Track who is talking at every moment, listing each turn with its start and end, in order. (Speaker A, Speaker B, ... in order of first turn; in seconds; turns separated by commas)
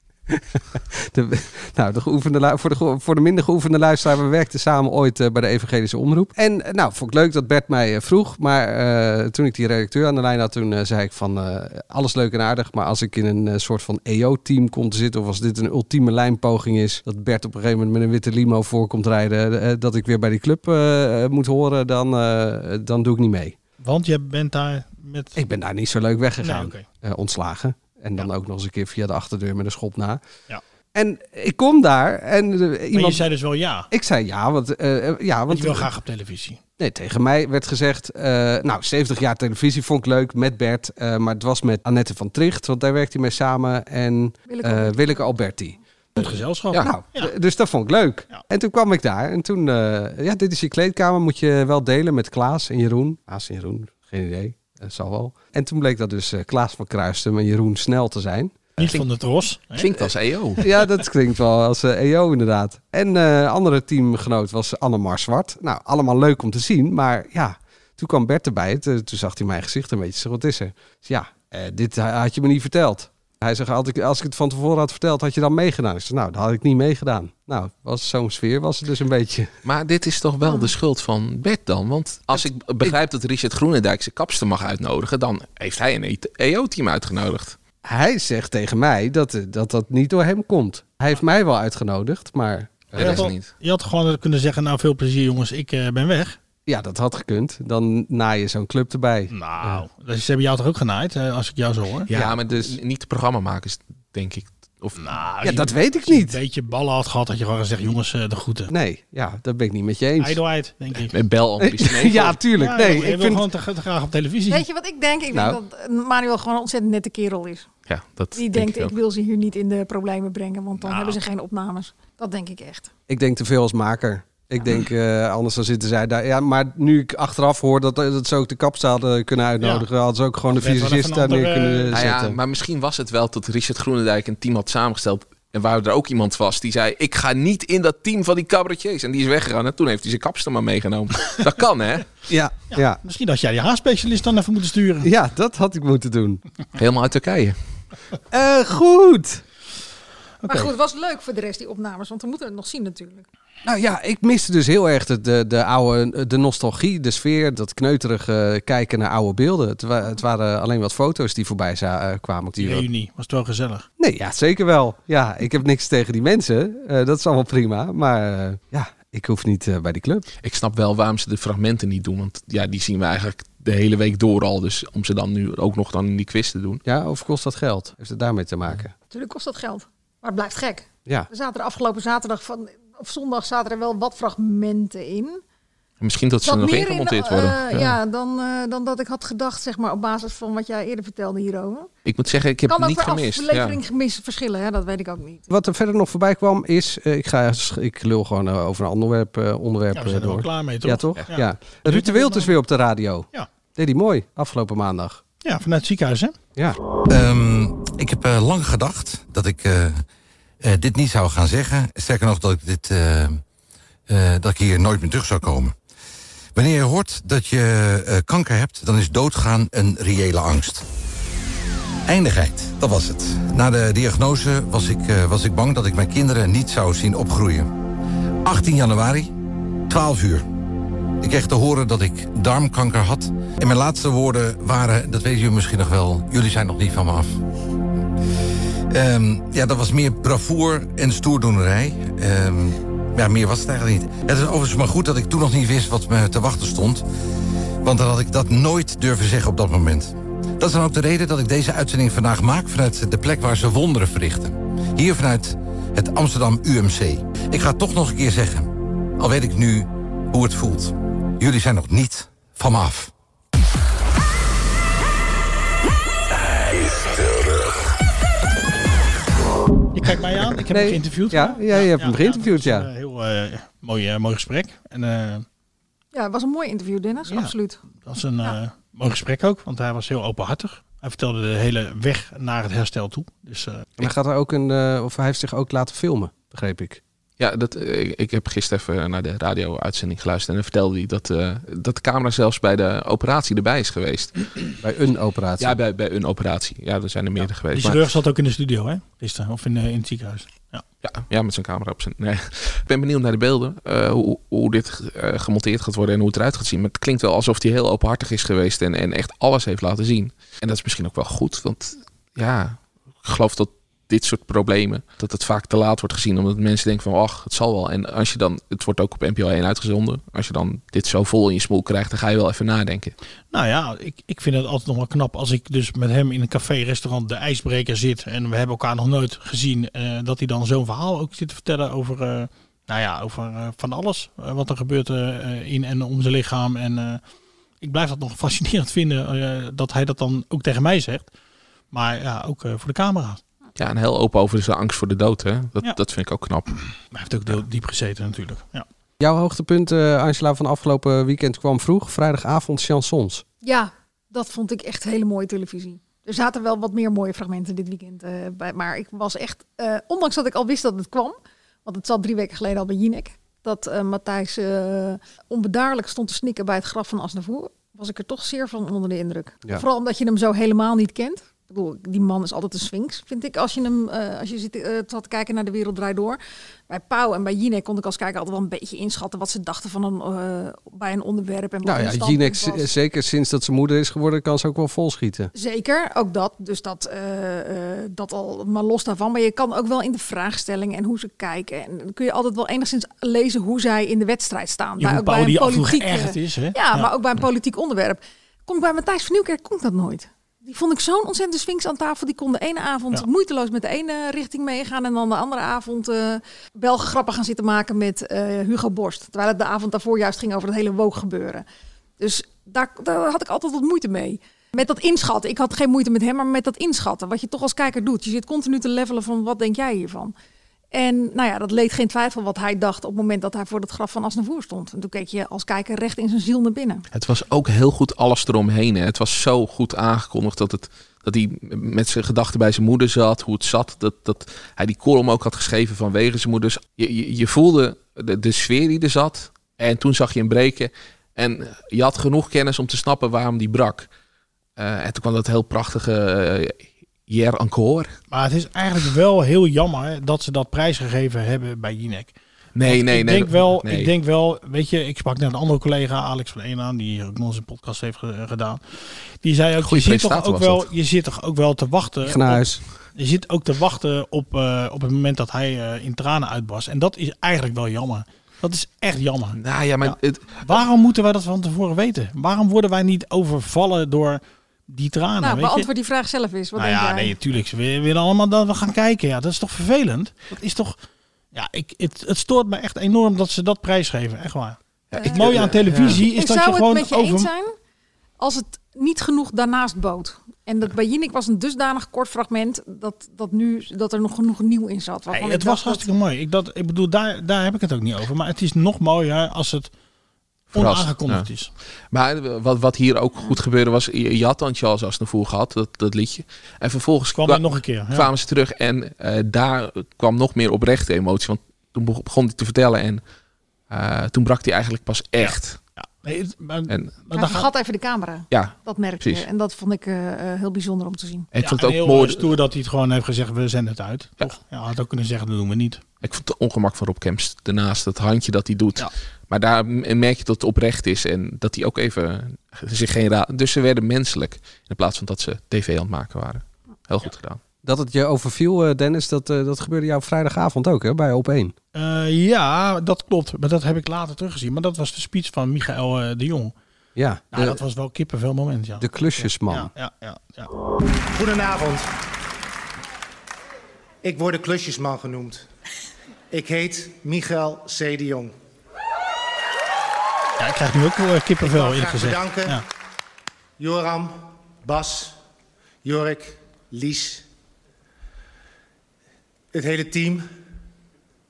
Speaker A: 0.3-23.6, Speaker B: 23.8-25.4, Speaker A: 25.4-30.2, Speaker B: 26.4-26.9, Speaker A: 30.9-33.2, Speaker B: 32.9-33.9, Speaker A: 33.9-35.9, Speaker B: 35.5-36.6, Speaker A: 36.8-58.8, Speaker C: 44.5-45.3, Speaker B: 46.2-47.3, Speaker B: 58.8-60.0, Speaker D: 59.8-60.6, Speaker A: 60.6-79.5, Speaker D: 79.7-87.6, Speaker A: 87.8-93.3, Speaker D: 92.9-93.5, Speaker B: 93.0-96.4, Speaker A: 96.7-99.8, Speaker B: 99.3-102.1, Speaker D: 102.1-105.0, Speaker A: 102.2-102.8, Speaker B: 105.0-108.7, Speaker A: 105.4-106.4, Speaker A: 108.7-110.4, Speaker B: 110.2-111.1, Speaker D: 111.1-112.4, Speaker A: 111.6-113.5, Speaker B: 112.6-114.7, Speaker C: 114.5-117.7, Speaker A: 115.3-115.6, Speaker D: 117.9-119.0, Speaker C: 118.3-122.9, Speaker B: 120.8-121.2, Speaker A: 123.1-132.4, Speaker B: 130.5-132.0, Speaker D: 131.9-142.1, Speaker A: 142.3-143.0, Speaker B: 142.8-145.1, Speaker A: 145.0-146.4, Speaker D: 146.8-147.6, Speaker A: 148.3-149.4, Speaker C: 150.5-153.3, Speaker A: 153.7-162.9, Speaker B: 162.6-163.9, Speaker A: 164.0-170.3, Speaker D: 170.4-176.8, Speaker A: 176.8-178.9, Speaker C: 179.1-185.4, Speaker D: 186.0-187.9, Speaker C: 186.4-191.9, Speaker D: 192.1-193.8, Speaker C: 192.7-195.5, Speaker A: 195.5-205.2, Speaker B: 199.9-202.5, Speaker B: 205.4-206.3, Speaker E: 207.1-210.0, Speaker E: 210.6-213.4, Speaker E: 214.1-215.8, Speaker E: 216.6-220.9, Speaker E: 222.1-227.7, Speaker E: 228.4-229.3, Speaker E: 229.9-230.5, Speaker E: 231.2-237.3, Speaker E: 238.9-247.1, Speaker E: 247.8-263.1, Speaker B: 269.9-275.4, Speaker A: 270.7-272.9, Speaker C: 276.1-277.8, Speaker B: 277.3-283.9, Speaker A: 284.0-287.0, Speaker D: 287.4-294.4, Speaker A: 294.8-295.8, Speaker D: 295.6-298.1, Speaker B: 297.7-300.8, Speaker D: 301.0-323.1, Speaker B: 323.5-337.2, Speaker B: 337.8-341.3, Speaker B: 341.9-343.4, Speaker D: 343.8-346.7, Speaker B: 347.1-348.9, Speaker A: 349.2-353.4, Speaker C: 353.6-382.9, Speaker A: 381.8-385.5, Speaker C: 385.6-411.6, Speaker B: 395.0-397.1, Speaker C: 412.2-420.3, Speaker C: 420.9-427.0, Speaker D: 427.1-444.1, Speaker D: 444.8-448.2, Speaker B: 448.3-475.9, Speaker D: 452.8-454.1, Speaker D: 459.8-460.9, Speaker A: 462.2-462.8, Speaker D: 469.6-470.6, Speaker C: 475.4-477.4, Speaker B: 476.8-481.0, Speaker B: 481.5-484.8, Speaker D: 485.1-486.2, Speaker C: 485.1-487.7, Speaker B: 485.3-487.5, Speaker C: 488.4-496.1, Speaker B: 495.3-499.9, Speaker D: 500.7-501.5, Speaker B: 500.7-501.7, Speaker D: 502.1-513.2, Speaker B: 507.3-508.3, Speaker D: 513.9-515.8, Speaker B: 515.4-517.7, Speaker C: 517.3-521.5, Speaker D: 518.5-519.5, Speaker D: 521.5-522.5, Speaker B: 521.6-526.0, Speaker D: 526.2-537.6, Speaker A: 537.8-541.8, Speaker B: 542.0-546.7, Speaker A: 547.2-547.8, Speaker B: 547.5-550.7, Speaker A: 549.0-549.9, Speaker F: 551.3-552.1, Speaker F: 554.2-555.7, Speaker F: 556.5-558.5, Speaker B: 560.6-562.8, Speaker F: 561.6-562.8, Speaker F: 563.8-565.4, Speaker F: 566.0-567.5, Speaker F: 569.7-570.5